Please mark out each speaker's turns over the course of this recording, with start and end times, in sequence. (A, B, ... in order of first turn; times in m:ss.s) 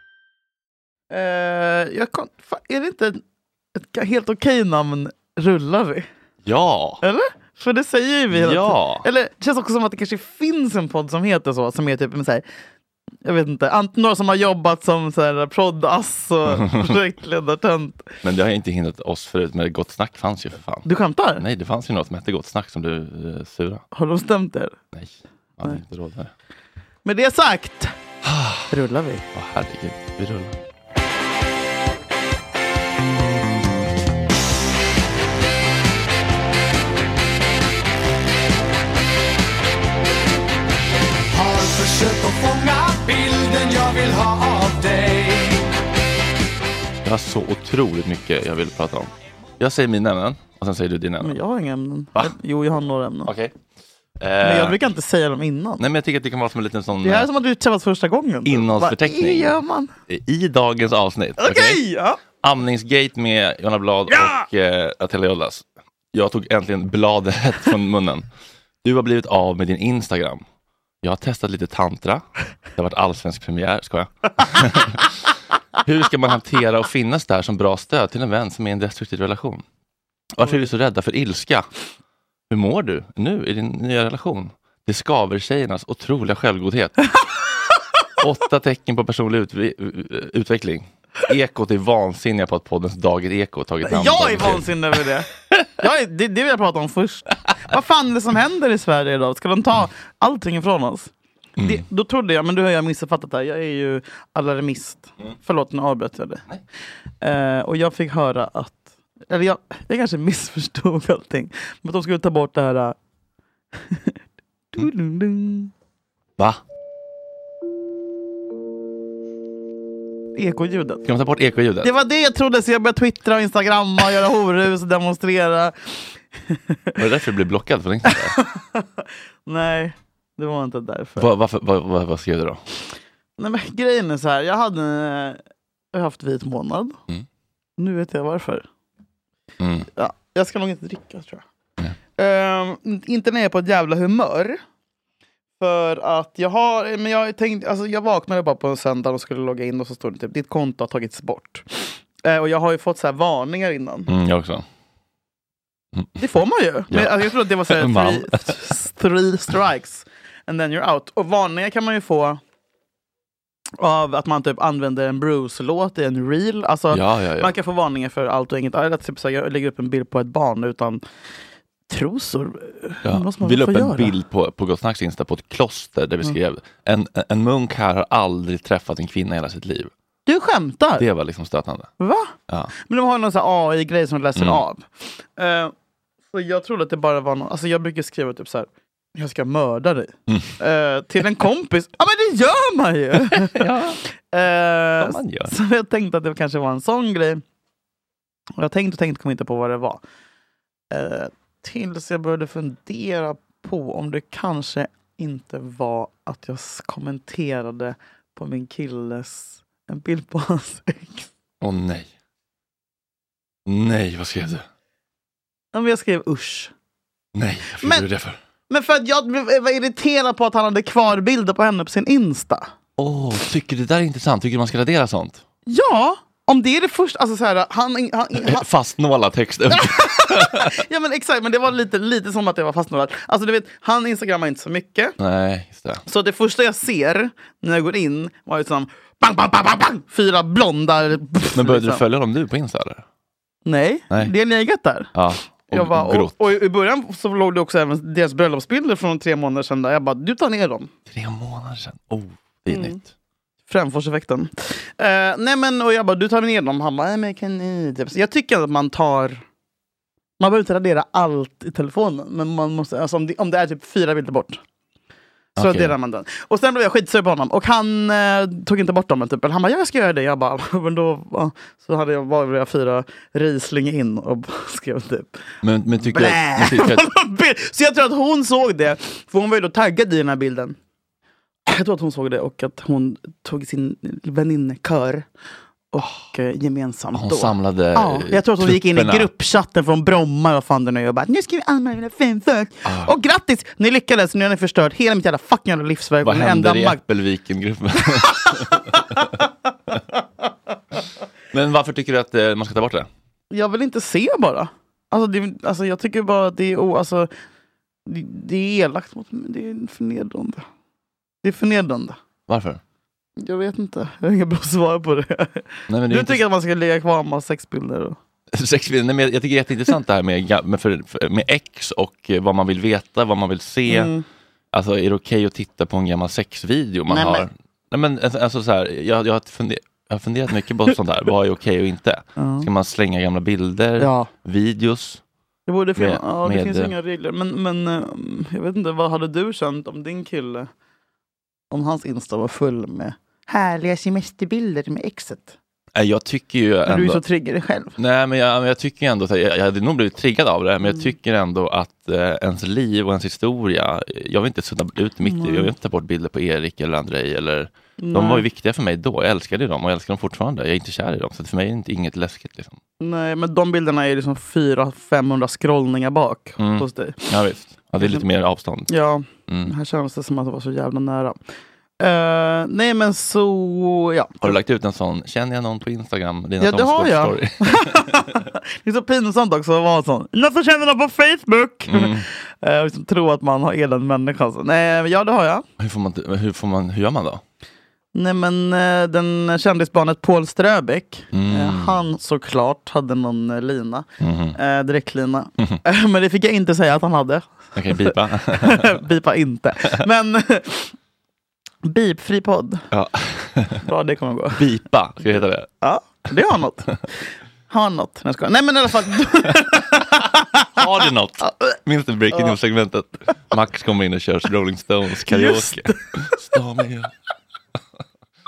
0:01.1-0:03.2 A
0:03.8-0:06.1 A
0:06.4-0:07.0 B
0:07.0-0:12.4 A
0:08.3-0:09.0 B
0:13.2-0:18.1 A
0:18.2-0:23.8 B
0:20.8-0:21.4 A
0:23.9-0:24.8 A
0:24.9-0:26.3 B
0:27.0-0:28.0 A
0:28.2-0:28.7 B
0:28.7-0:29.3 A
0:29.3-0:30.6 B
0:41.3-0:45.7 C
0:47.0-0:51.4 B
0:51.2-0:53.3 A
0:53.2-0:53.6 B
0:54.2-0:54.8 B
0:54.4-0:55.8 A
0:55.8-0:57.3 B
0:57.0-0:59.9 A
0:58.4-0:59.6 B
1:00.1-1:01.8 B
1:01.4-1:02.2 A
1:02.4-1:08.3 B
1:04.1-1:04.4 A
1:08.8-1:10.4 B
1:11.0-1:15.1 B
1:15.8-1:19.6 B
1:20.3-1:21.7 B
1:22.5-1:27.0 B
1:28.2-1:34.8 B
1:33.8-1:46.4 A
1:41.6-1:41.8 B
1:47.2-1:53.0 A
1:53.9-1:54.1 A
1:54.7-1:55.7 A
2:00.4-2:01.0 A
2:01.0-2:01.9 B
2:01.8-2:06.0 A
2:06.5-2:07.0 A
2:07.0-2:08.4 B
2:08.1-2:11.3 A
2:11.2-2:12.6 B
2:13.4-2:15.4 A
2:15.9-2:17.0 A
2:17.8-2:18.6 A
2:19.6-2:19.9 B
2:20.0-2:21.4 A
2:22.2-2:24.6 A
2:25.6-2:34.1 A
2:34.1-2:34.6 B
2:36.2-2:42.4 A
2:36.9-2:38.5 B
2:43.8-2:51.0 A
2:46.9-2:47.5 B
2:51.9-2:54.1 A
2:53.0-2:59.9 B
3:00.3-3:01.1 A
3:01.0-3:01.9 B
3:02.0-3:02.3 A
3:02.9-3:05.7 A
3:04.4-3:04.6 B
3:06.3-3:13.7 A
3:13.3-3:14.0 B
3:14.3-3:17.4 A
3:15.0-3:15.5 B
3:18.6-3:20.0 A
3:20.9-3:31.3 A
3:31.6-3:32.1 B
3:33.7-3:34.7 B
3:35.7-3:36.7 A
3:37.4-3:38.4 B
3:37.8-3:38.1 A
3:38.7-3:42.7 A
3:43.0-3:45.4 B
3:45.7-3:48.7 A
3:48.4-3:50.8 B
3:49.7-3:55.2 A
3:55.2-3:56.0 B
3:56.1-4:02.0 A
4:01.5-4:03.0 B
4:03.6-4:05.1 A
4:05.2-4:06.5 B
4:05.7-4:10.9 A
4:11.1-4:13.0 B
4:12.7-4:13.0 A
4:13.7-4:19.4 A
4:20.4-4:24.6 A
4:25.6-4:35.3 A
4:25.6-4:26.0 B
4:35.6-4:37.0 B
4:36.0-4:40.8 A
4:41.7-4:45.3 A
4:45.9-4:57.0 A
4:47.1-4:49.3 B
4:52.8-4:53.1 B
4:56.2-4:59.3 B
5:01.5-5:03.1 B
5:03.5-5:07.3 A
5:08.1-5:10.6 A
5:11.4-5:12.2 A
5:12.5-5:12.8 B
5:13.4-5:18.2 A
5:15.9-5:16.4 B
5:18.5-5:24.1 B
5:23.9-5:24.2 A
5:24.7-5:35.2 B
5:27.1-5:27.5 A
5:32.4-5:32.7 A
5:34.0-5:34.3 A
5:35.7-5:40.7 A
5:36.0-5:36.9 B
5:41.7-5:45.6 A
5:46.0-5:47.2 B
5:46.9-5:47.9 A
5:48.0-6:02.8 B
5:55.2-5:55.7 A
5:58.0-5:58.4 A
6:03.0-6:07.2 A
6:06.6-6:08.9 B
6:08.0-6:08.2 A
6:08.9-6:11.4 A
6:09.5-6:09.7 B
6:12.0-6:14.6 A
6:14.4-6:18.2 B
6:16.6-6:25.6 A
6:21.9-6:22.3 B
6:25.8-6:27.4 B
6:28.1-6:40.9 A
6:31.3-6:32.0 B
6:34.2-6:34.6 B
6:37.8-6:38.9 B
6:41.8-6:42.9 A
6:42.9-6:43.8 B
6:43.8-6:44.7 A
6:44.6-6:45.7 B
6:45.8-6:47.1 A
6:47.7-6:50.9 A
6:50.8-6:57.1 B
6:51.4-6:51.7 A
6:55.3-6:56.4 A